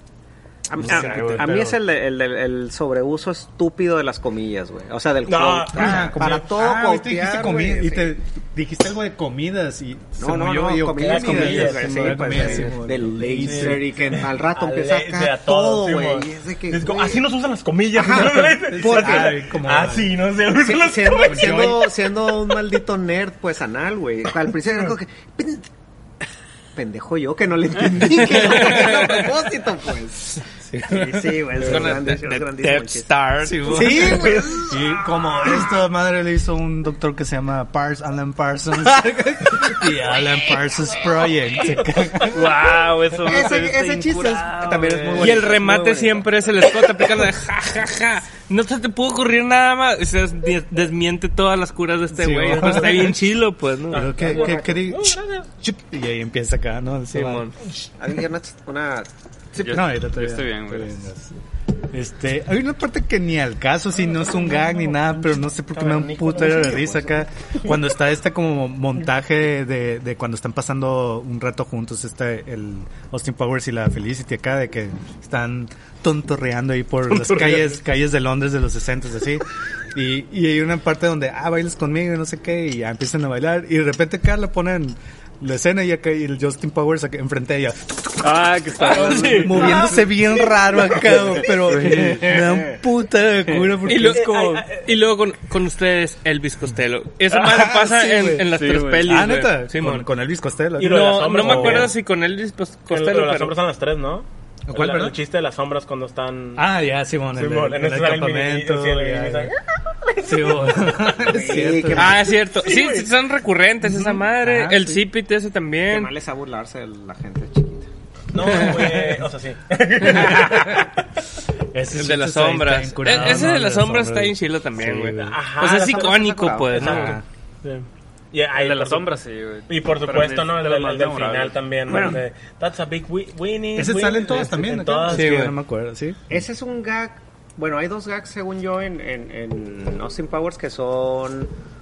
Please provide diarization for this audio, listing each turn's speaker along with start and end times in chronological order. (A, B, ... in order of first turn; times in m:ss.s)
0:00.7-0:08.2 A
0:00.8-0:01.8 B
0:05.2-0:06.4 C
0:05.7-0:14.1 B
0:10.2-0:17.2 A
0:11.0-0:12.7 C
0:13.4-0:21.9 C
0:18.0-0:19.3 A
0:18.7-0:20.1 B
0:20.6-0:25.7 A
0:21.3-0:21.9 B
0:26.8-0:33.1 A
0:28.8-0:29.1 D
0:31.1-0:34.3 D
0:33.4-0:42.6 B
0:33.6-0:34.8 A
0:34.2-0:34.6 C
0:41.7-0:42.3 C
0:42.3-0:45.4 E
0:43.2-0:46.3 A
0:44.9-0:45.4 B
0:45.2-0:54.1 D
0:52.1-0:53.2 B
0:52.6-0:53.1 C
0:53.9-0:57.5 B
0:53.9-0:55.5 C
0:54.2-0:54.8 A
0:57.1-0:57.6 D
0:58.0-0:59.1 A
0:59.6-1:01.0 E
0:59.6-1:01.3 B
1:01.9-1:28.3 B
1:05.7-1:07.7 C
1:28.2-1:30.0 E
1:28.9-1:29.8 D
1:29.2-1:34.6 B
1:31.5-1:32.4 E
1:33.8-1:40.1 D
1:33.9-1:34.9 C
1:37.3-1:41.9 B
1:38.5-1:39.2 E
1:40.8-1:42.0 C
1:40.8-1:43.6 D
1:42.9-1:46.6 C
1:44.7-1:45.2 B
1:46.6-1:49.5 B
1:47.3-1:49.6 C
1:50.2-1:52.2 B
1:51.2-1:52.2 A
1:51.9-1:56.1 D
1:52.5-1:53.1 C
1:53.8-1:55.0 B
1:55.9-1:57.9 A
1:58.3-2:00.9 C
1:58.8-1:59.2 B
2:00.2-2:00.8 B
2:01.7-2:05.4 B
2:01.9-2:07.2 D
2:05.2-2:09.1 C
2:05.6-2:07.0 A
2:06.7-2:07.2 B
2:08.5-2:11.6 E
2:09.7-2:15.3 C
2:11.9-2:12.2 A
2:13.8-2:16.4 B
2:15.1-2:15.6 D
2:16.3-2:21.5 A